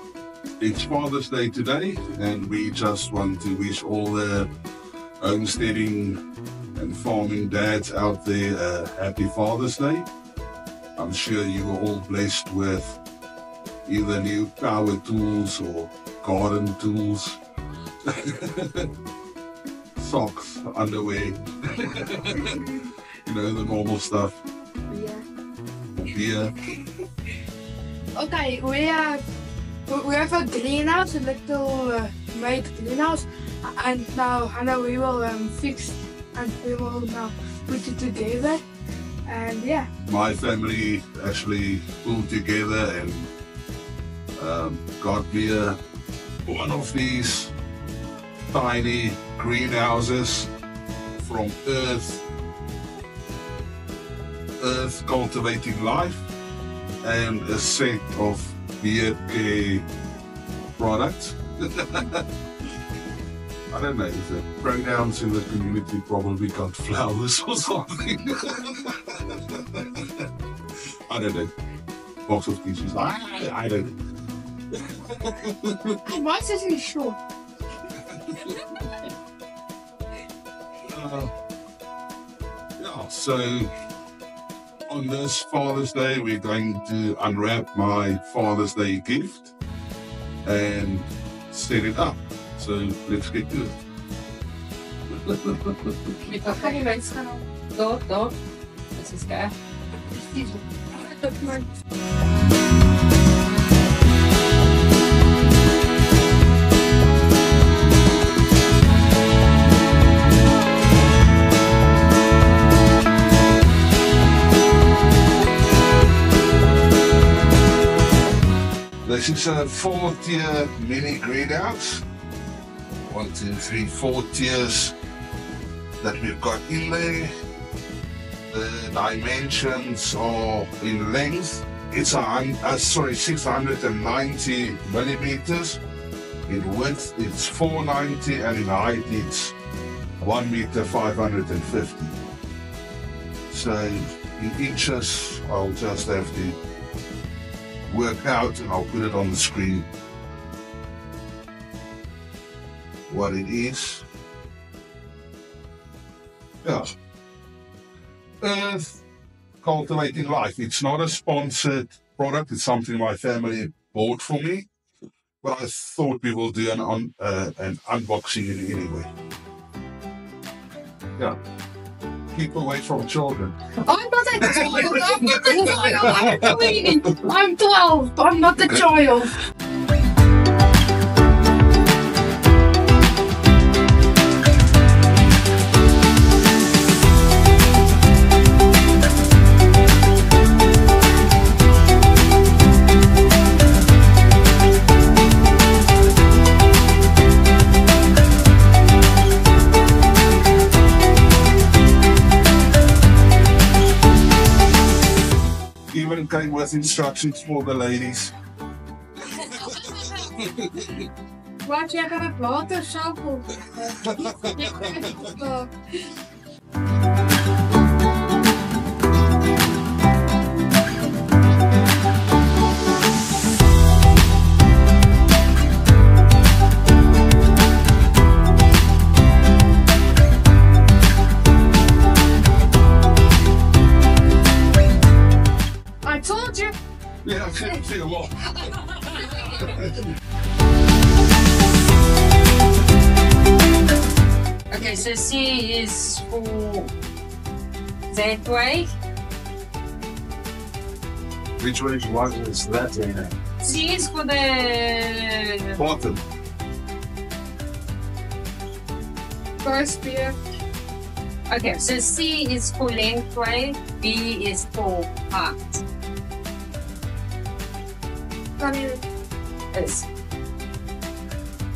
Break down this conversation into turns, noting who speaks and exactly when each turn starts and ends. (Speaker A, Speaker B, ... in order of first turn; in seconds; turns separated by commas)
Speaker A: 0.6-4.5, Speaker A: 5.2-6.2, Speaker A: 6.7-10.1, Speaker A: 10.9-13.0, Speaker A: 13.8-17.4, Speaker A: 18.0-18.9, Speaker A: 20.0-22.7, Speaker B: 22.4-22.9, Speaker A: 23.2-24.4, Speaker B: 24.9-25.2, Speaker A: 26.0-26.5, Speaker B: 28.1-29.2, Speaker B: 29.9-38.6, Speaker B: 39.3-39.9, Speaker A: 40.0-43.3, Speaker A: 44.4-45.8, Speaker A: 46.5-47.5, Speaker A: 48.5-50.5, Speaker A: 51.1-52.2, Speaker A: 54.6-56.3, Speaker A: 57.0-59.9, Speaker A: 60.8-62.2, Speaker A: 63.7-70.3, Speaker A: 71.1-71.5, Speaker A: 72.2-73.9, Speaker A: 74.7-76.0, Speaker B: 76.0-77.2, Speaker A: 78.0-78.6, Speaker A: 80.9-81.3, Speaker A: 82.8-83.7, Speaker A: 84.9-89.5, Speaker A: 90.4-93.8, Speaker A: 95.1-96.2, Speaker C: 96.2-97.1, Speaker B: 96.4-97.4, Speaker C: 97.7-98.3, Speaker C: 98.9-99.5, Speaker B: 100.1-101.6, Speaker A: 119.0-122.0, Speaker A: 123.1-124.9, Speaker A: 126.0-127.3, Speaker A: 128.5-135.8, Speaker A: 136.4-139.6, Speaker A: 140.2-142.2, Speaker A: 143.5-146.6, Speaker A: 147.9-149.9, Speaker A: 153.1-154.1, Speaker A: 156.6-156.9, Speaker A: 158.4-159.0, Speaker A: 159.6-164.7, Speaker A: 165.4-169.1, Speaker A: 172.3-173.6, Speaker B: 173.9-176.0, Speaker A: 174.4-177.0, Speaker C: 174.9-177.0, Speaker B: 177.0-179.3, Speaker A: 205.9-208.3, Speaker A: 209.3-211.1, Speaker B: 211.6-215.7, Speaker A: 213.8-215.3, Speaker B: 236.0-236.7, Speaker A: 237.2-240.1, Speaker C: 244.7-246.9, Speaker C: 248.1-248.9, Speaker A: 251.6-253.4, Speaker C: 253.6-255.8, Speaker A: 255.8-256.2, Speaker B: 259.6-260.4, Speaker C: 261.5-265.8, Speaker B: 268.6-269.0, Speaker C: 269.7-270.1